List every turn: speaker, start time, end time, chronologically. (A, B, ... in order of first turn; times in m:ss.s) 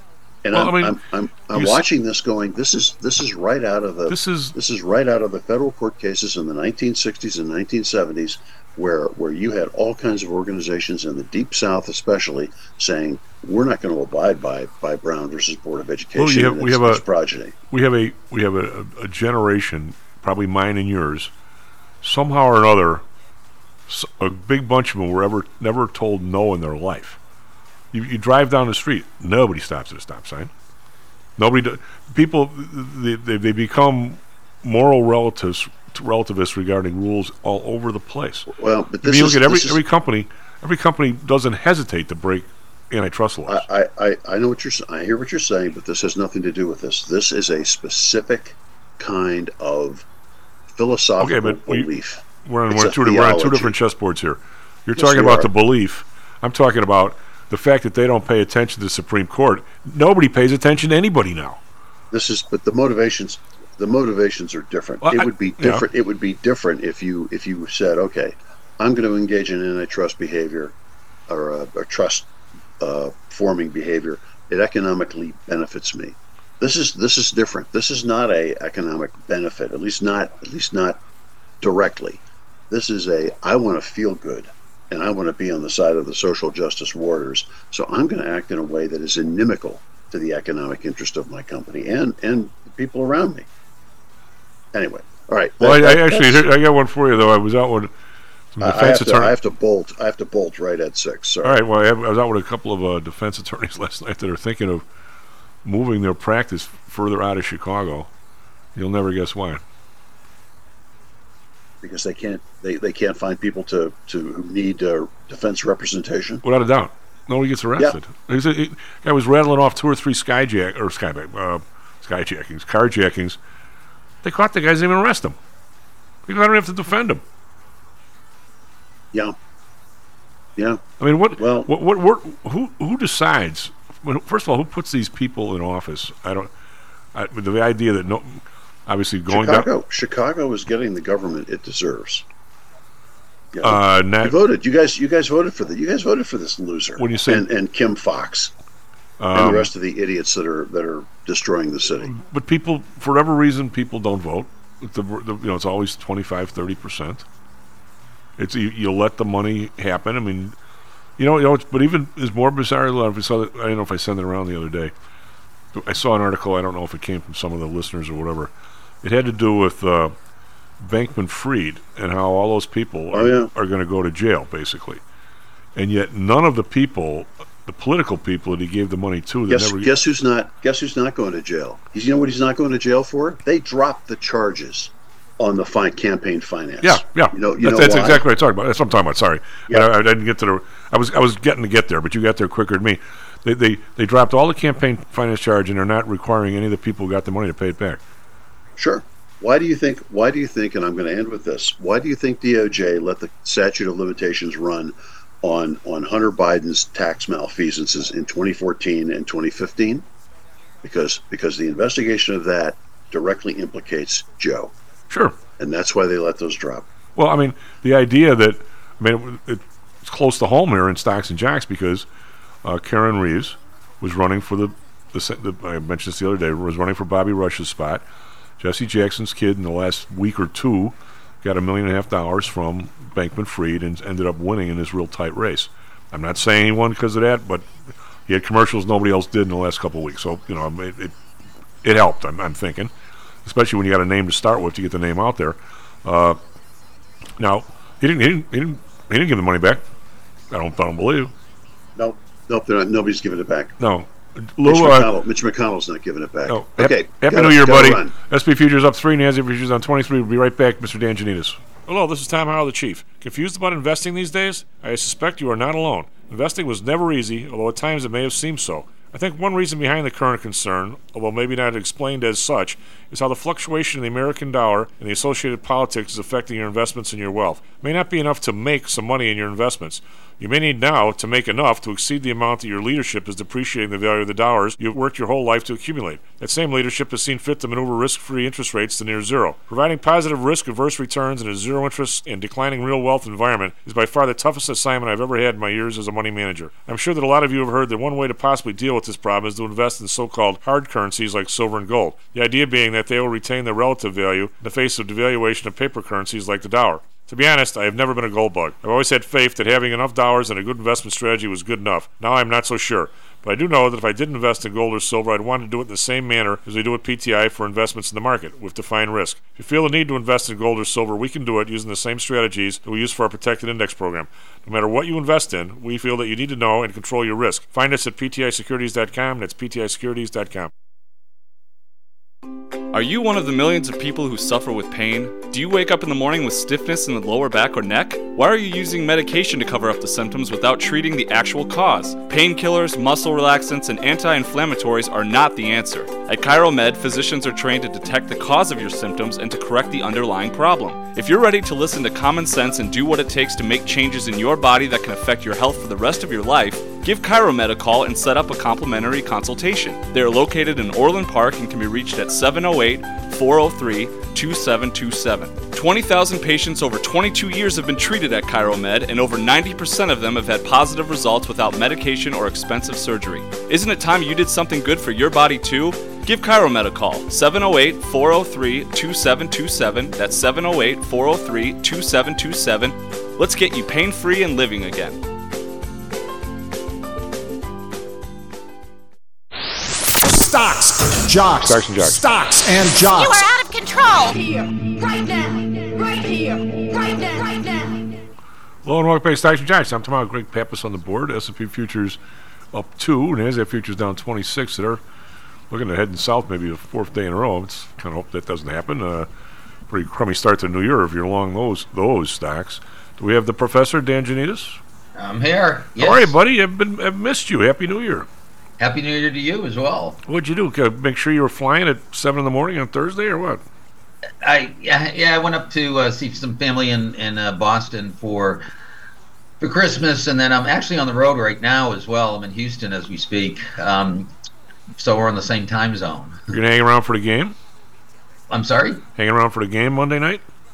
0:00.4-0:17.6 A
0:00.5-0:01.0 B
0:01.5-0:01.8 B
0:04.1-0:04.6 B
0:16.2-0:17.0 B
0:17.7-0:21.3 B
0:22.0-0:23.0 B
0:23.9-0:27.2 B
0:27.9-0:30.5 B
0:31.4-0:38.5 B
0:38.5-0:39.8 A
0:39.0-0:43.7 B
0:43.5-0:50.1 A
0:50.7-0:53.8 A
0:51.2-0:51.9 B
0:52.4-1:01.6 B
0:54.9-0:55.5 A
1:02.1-1:10.8 A
1:05.0-1:05.8 B
1:11.3-1:21.0 A
1:21.6-1:33.5 A
1:34.7-1:36.5 A
1:35.6-1:37.9 B
1:38.5-1:39.4 B
1:38.6-1:41.6 A
1:41.4-1:44.8 B
1:45.6-1:48.1 B
1:48.8-1:49.6 B
1:51.8-1:56.4 A
1:56.4-2:03.4 B
2:04.2-2:05.4 B
2:06.3-2:07.2 B
2:10.6-2:10.8 A
2:11.0-2:16.5 B
2:11.4-2:11.7 A
2:17.1-2:19.7 B
2:19.3-2:22.2 A
2:23.5-2:28.5 A
2:23.6-2:24.4 B
2:27.0-2:27.5 B
2:29.2-2:29.7 B
2:29.3-2:32.2 A
2:32.0-2:37.2 B
2:38.4-2:40.6 B
2:41.2-2:44.9 B
2:45.8-2:48.5 B
2:49.0-2:50.1 B
2:50.8-2:55.0 B
2:53.1-2:53.5 A
2:55.8-2:59.9 B
2:59.5-3:08.2 A
3:06.8-3:18.0 B
3:18.8-3:30.0 A
3:30.8-3:34.8 A
3:35.1-3:35.4 B
3:35.6-3:36.9 A
3:37.2-3:42.1 B
3:42.6-3:48.0 B
3:48.6-3:57.7 B
3:58.3-4:01.2 B
4:01.8-4:02.9 B
4:03.4-4:06.4 B
4:07.4-4:09.8 B
4:10.5-4:11.3 B
4:12.0-4:13.8 A
4:13.8-4:15.1 B
4:14.6-4:18.1 A
4:16.5-5:30.7 B
5:32.9-6:25.2 C
6:30.2-6:33.5 D
6:31.6-6:32.2 B
6:33.2-6:38.2 E
6:38.8-6:42.2 B
6:42.7-6:45.0 B
6:45.7-6:49.3 B
6:49.9-6:54.8 B
6:55.2-6:56.4 F
6:56.0-6:58.3 B
6:58.8-7:00.2 F
7:00.2-7:03.6 B
7:04.4-7:08.6 F
7:09.6-7:14.3 F
7:15.0-7:16.4 F
7:16.5-7:17.6 B
7:18.5-7:19.0 F
7:19.2-7:20.4 B